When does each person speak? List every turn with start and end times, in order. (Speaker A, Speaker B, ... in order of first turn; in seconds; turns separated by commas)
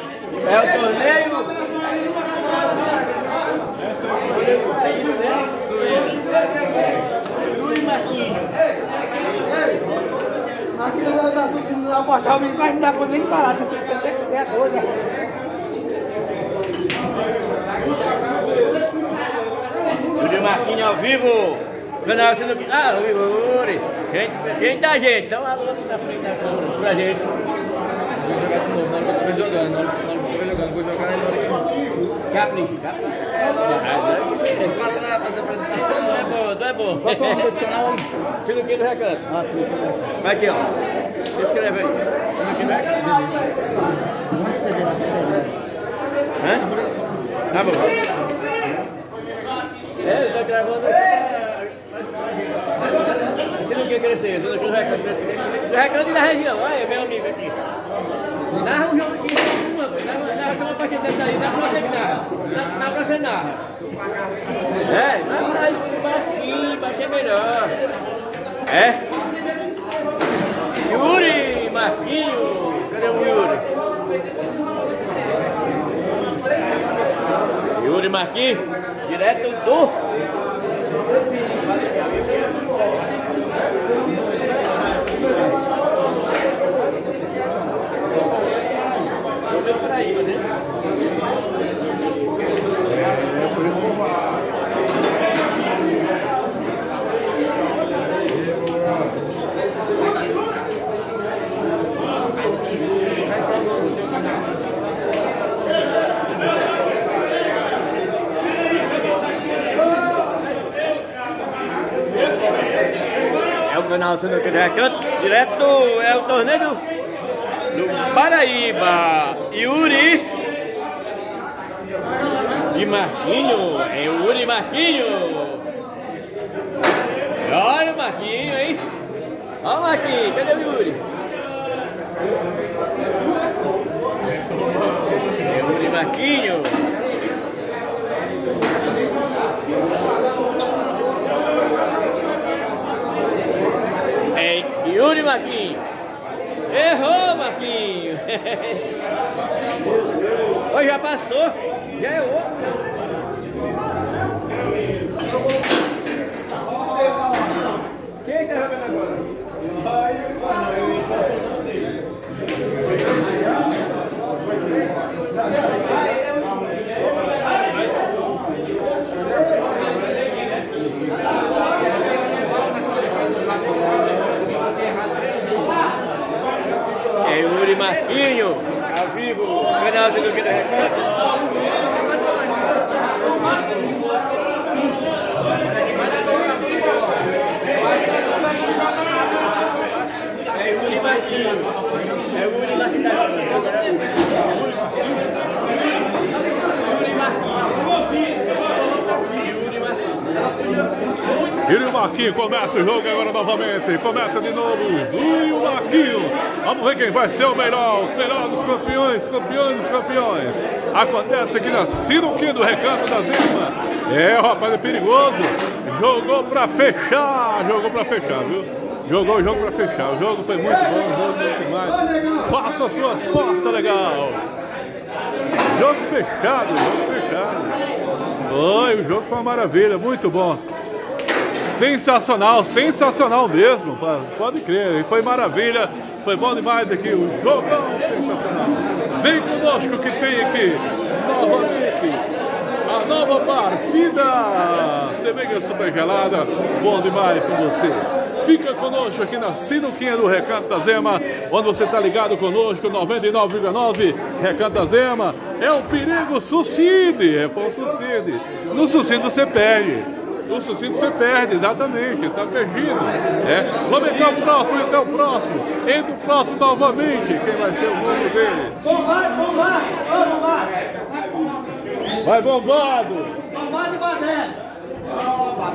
Speaker A: 0.4-1.7, Speaker A: 4.1-6.2, Speaker A: 7.4-8.5, Speaker B: 10.8-14.9, Speaker A: 20.2-27.3, Speaker C: 28.2-31.8, Speaker A: 32.3-35.0, Speaker C: 34.9-35.9, Speaker A: 35.8-37.7, Speaker B: 37.6-38.0, Speaker A: 38.4-39.4, Speaker A: 40.2-40.7, Speaker A: 41.3-43.4, Speaker B: 44.4-45.3, Speaker A: 46.4-46.7, Speaker A: 47.5-48.0, Speaker A: 50.0-57.6, Speaker A: 58.5-63.6, Speaker A: 64.8-67.8, Speaker A: 68.7-69.0, Speaker A: 70.8-73.6, Speaker A: 77.8-80.0, Speaker A: 89.5-90.5, Speaker A: 113.5-116.8, Speaker A: 117.7-120.4, Speaker A: 122.7-125.7, Speaker A: 127.4-128.8, Speaker A: 129.6-131.0, Speaker A: 135.4-136.8, Speaker A: 144.3-145.8, Speaker A: 146.7-148.9, Speaker A: 150.0-152.9, Speaker A: 158.2-159.3, Speaker A: 177.2-181.2, Speaker A: 190.5-191.7, Speaker A: 192.3-194.9, Speaker A: 196.8-197.6, Speaker A: 198.9-200.2, Speaker D: 201.7-224.4, Speaker D: 225.7-227.8, Speaker D: 228.5-230.6, Speaker D: 231.6-242.2, Speaker D: 242.8-269.0, Speaker D: 272.2-273.4